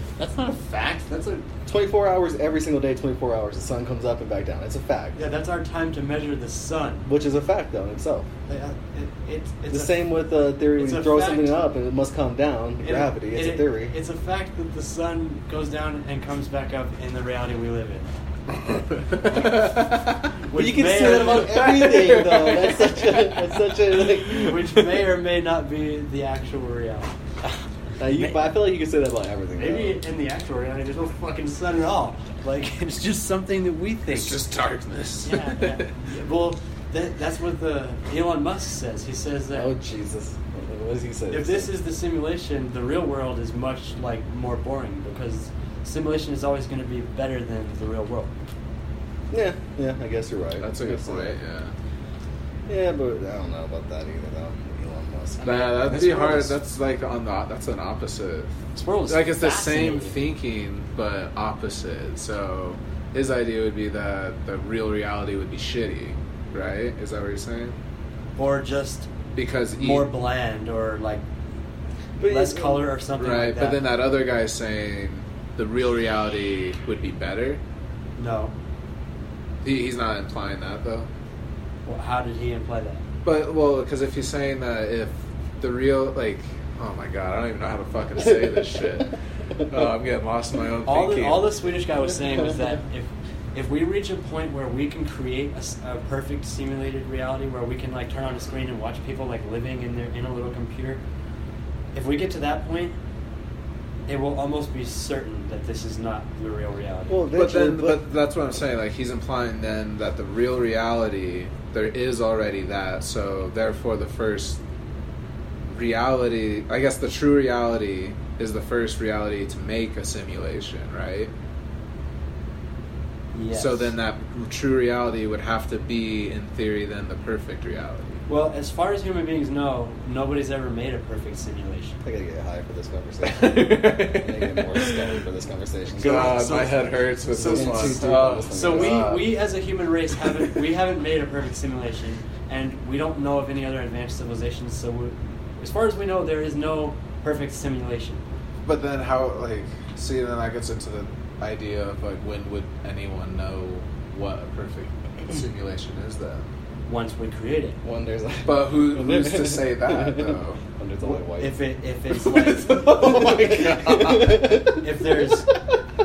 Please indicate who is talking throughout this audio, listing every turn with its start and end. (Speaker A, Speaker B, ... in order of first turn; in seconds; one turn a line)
Speaker A: 0.2-1.4
Speaker B: 1.6-5.2
Speaker A: 5.2-7.0
Speaker B: 7.0-8.3
Speaker A: 8.5-10.0
Speaker B: 9.7-13.9
Speaker A: 10.7-11.6
Speaker A: 12.8-18.1
Speaker C: 18.8-20.2
Speaker A: 20.5-21.8
Speaker B: 20.5-24.9
Speaker C: 21.4-23.4
Speaker A: 24.3-27.5
Speaker B: 28.0-30.0
Speaker A: 28.1-28.5
Speaker A: 29.6-34.4
Speaker C: 34.1-35.9
Speaker A: 35.2-39.7
Speaker B: 39.5-41.7
Speaker A: 41.3-48.3
Speaker B: 49.3-51.4
Speaker C: 50.6-51.7
Speaker B: 52.7-56.0
Speaker A: 55.4-56.5
Speaker C: 55.4-58.5
Speaker A: 58.7-60.2
Speaker C: 59.1-67.8
Speaker A: 68.4-69.1
Speaker C: 69.3-70.1
Speaker A: 69.8-71.2
Speaker B: 72.2-72.9
Speaker A: 72.3-73.8
Speaker C: 73.2-77.6
Speaker A: 78.2-78.5
Speaker C: 79.6-81.1
Speaker A: 81.8-83.0
Speaker C: 83.2-89.1
Speaker C: 89.7-91.6
Speaker A: 90.8-101.0
Speaker A: 101.9-102.9
Speaker A: 104.1-107.2
Speaker B: 107.1-108.0
Speaker C: 107.3-114.6
Speaker C: 115.7-121.3
Speaker A: 123.3-123.9
Speaker C: 123.5-128.2
Speaker A: 128.3-132.0
Speaker B: 132.0-136.7
Speaker C: 133.2-135.0
Speaker A: 136.0-148.2
Speaker C: 136.0-139.4
Speaker B: 137.3-139.1
Speaker C: 148.6-156.5
Speaker A: 156.9-157.8
Speaker B: 157.8-161.6
Speaker C: 158.4-160.6
Speaker A: 161.1-162.9
Speaker C: 162.2-164.5
Speaker B: 163.0-164.8
Speaker A: 164.8-165.5